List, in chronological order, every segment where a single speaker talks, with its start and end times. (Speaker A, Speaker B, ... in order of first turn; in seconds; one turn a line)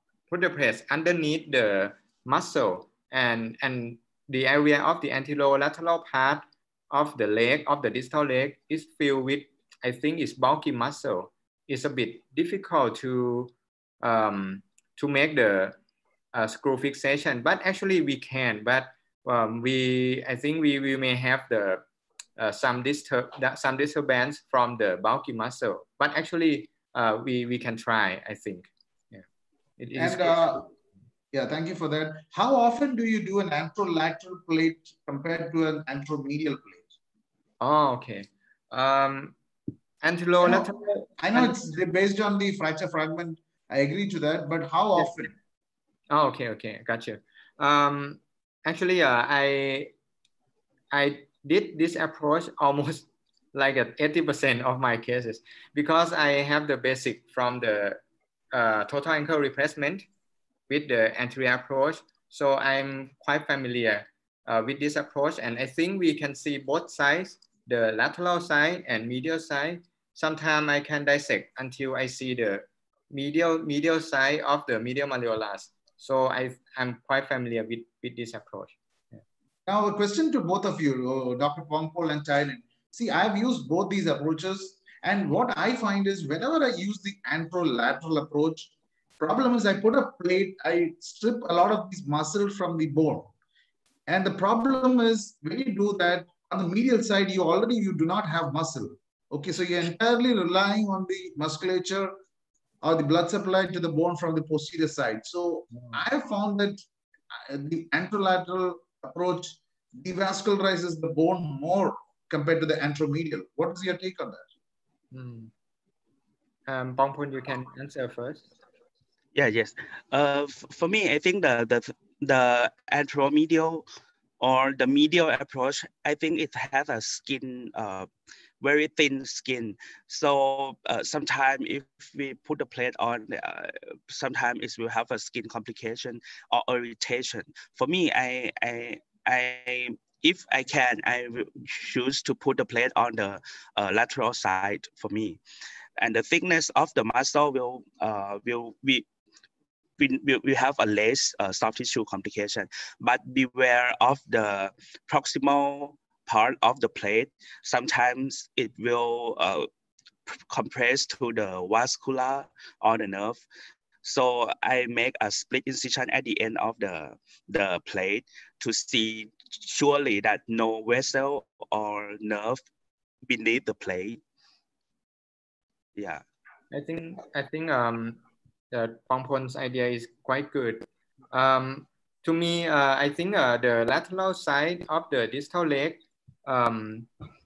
Speaker A: 0.3-15.8
Speaker A: 16.3-21.8
Speaker A: 22.4-29.2
Speaker A: 29.8-30.7
Speaker B: 30.0-30.6
Speaker B: 31.3-36.9
Speaker A: 37.6-39.4
Speaker A: 40.0-41.7
Speaker B: 40.4-45.3
Speaker A: 46.1-49.9
Speaker A: 50.9-58.0
Speaker A: 58.5-60.0
Speaker A: 60.7-79.2
Speaker B: 79.7-93.3
Speaker B: 94.1-102.1
Speaker B: 102.8-106.8
Speaker B: 107.3-114.4
Speaker A: 115.1-115.5
Speaker A: 116.7-118.5
Speaker C: 119.3-123.8
Speaker C: 124.4-128.1
Speaker C: 128.6-145.4
Speaker C: 146.0-149.0
Speaker C: 150.0-159.7
Speaker C: 160.3-163.4
Speaker C: 164.0-172.6
Speaker C: 173.2-174.2
Speaker C: 175.9-176.2
Speaker A: 176.7-178.2
Speaker A: 178.7-187.1